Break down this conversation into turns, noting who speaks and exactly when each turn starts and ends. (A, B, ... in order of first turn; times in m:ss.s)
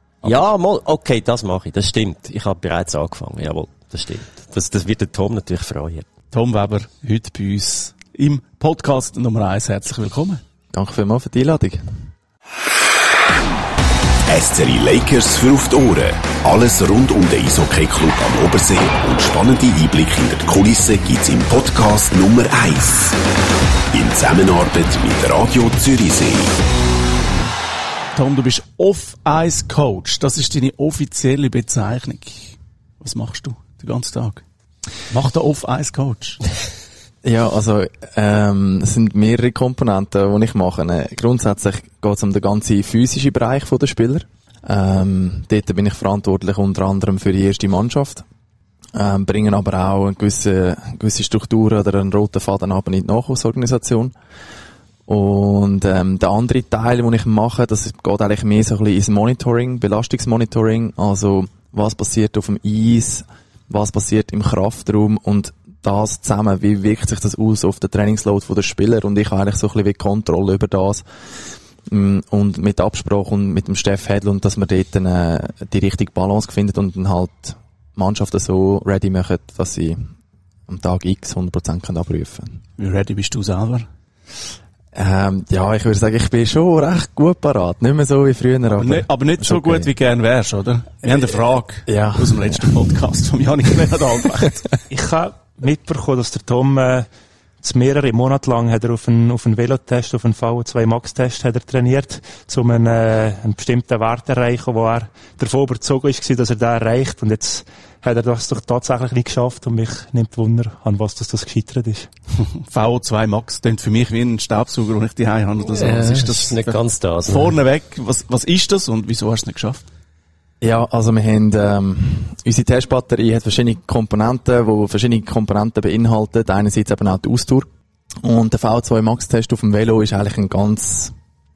0:00.2-0:06.1 A
0:06.3-0:10.4 B
0:10.7-0:11.9 C
0:14.3-0:23.2 D
0:23.9-0:26.6 D
0:28.2-0:34.4 B
0:35.1-0:36.4 B
0:37.2-0:48.2 C
0:48.9-0:54.1 C
0:55.1-1:11.0 C
1:11.9-1:20.0 C
1:20.7-1:22.6 C
1:22.8-1:23.9 B
1:24.9-1:29.9 C
1:28.7-1:34.6 B
1:31.9-1:32.7 C
1:34.9-1:37.1 E
1:37.6-1:52.1 E
1:52.5-1:59.9 B
1:55.6-1:57.6 A
2:00.6-2:07.7 C
2:08.2-2:11.2 C